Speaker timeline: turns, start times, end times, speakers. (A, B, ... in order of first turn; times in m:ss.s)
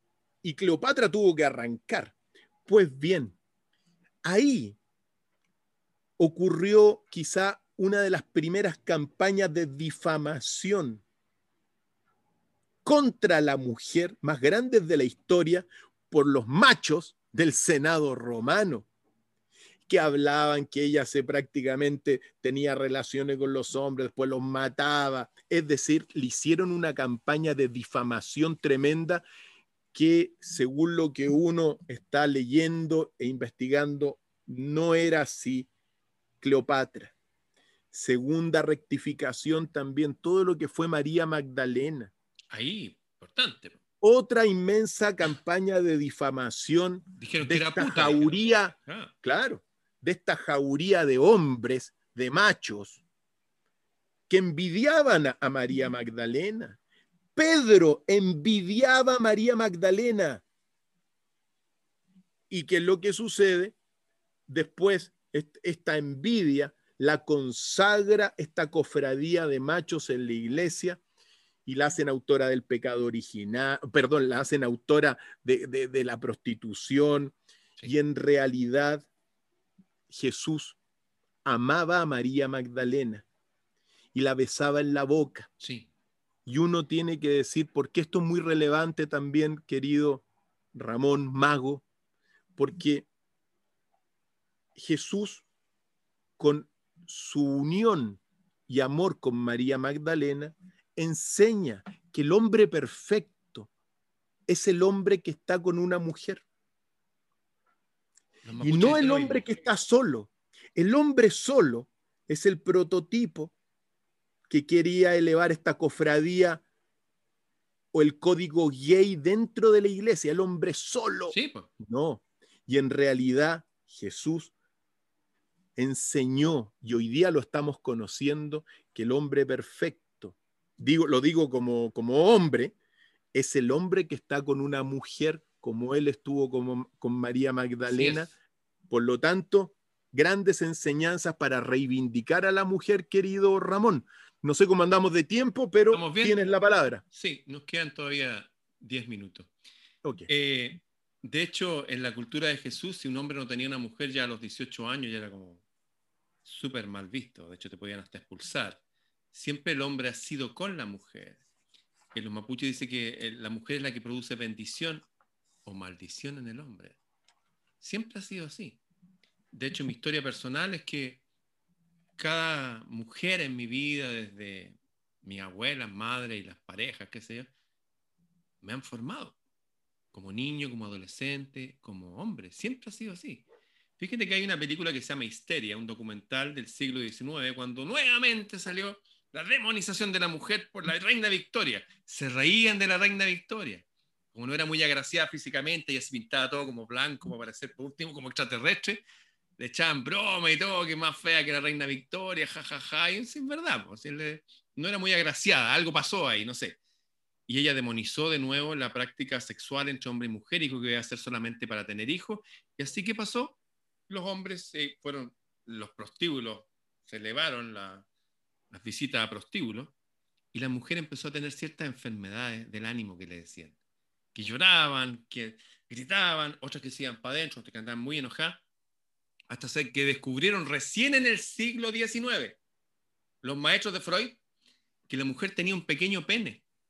0:00.4-0:02.1 A
0:02.6-0:03.4 A
0:04.2-0:04.8 A
0:06.2-0:11.0 A
0:12.8-0:18.9 A
0:19.9-0:29.2 A
0:29.9-0:35.7 A
0:36.4-0:37.1 A
0:37.9-0:42.1 A
0:42.5-0:43.8 B
0:44.0-0:53.0 A
0:47.2-0:49.1 B
0:54.3-0:56.8 A
0:57.4-1:00.4 A
1:02.5-1:03.8 A
1:04.5-1:11.0 A
1:11.6-1:19.1 A
1:20.1-1:20.8 A
1:21.4-1:23.2 A
1:24.1-1:25.5 A
1:25.6-1:25.9 B
1:26.4-1:31.8 A
1:32.6-1:33.1 A
1:34.8-1:35.4 A
1:36.4-1:43.7 A
1:44.5-1:46.4 A
1:48.4-1:49.4 B
1:48.6-1:53.5 A
1:54.5-1:56.6 A
1:57.9-2:04.5 A
2:01.3-2:01.7 B
2:05.8-2:12.7 A
2:13.3-2:18.3 A
2:17.9-2:18.3 B
2:18.9-2:27.0 A
2:25.9-2:26.4 B
2:27.1-2:29.5 B
2:30.0-2:30.3 A
2:30.3-2:35.6 B
2:36.4-2:38.8 B
2:39.3-2:41.4 B
2:42.1-2:45.0 B
2:45.6-2:47.0 B
2:47.8-2:48.8 B
2:49.5-2:51.2 B
2:52.2-2:57.5 B
2:58.6-2:59.4 B
3:00.1-3:03.4 B
3:04.0-3:19.0 B
3:19.6-3:26.8 B
3:27.5-3:33.6 B
3:34.1-3:38.0 B
3:38.7-3:39.9 B
3:40.5-3:43.7 B
3:44.3-3:48.6 B
3:49.5-3:52.6 B
3:53.4-3:54.4 B
3:55.1-3:56.6 B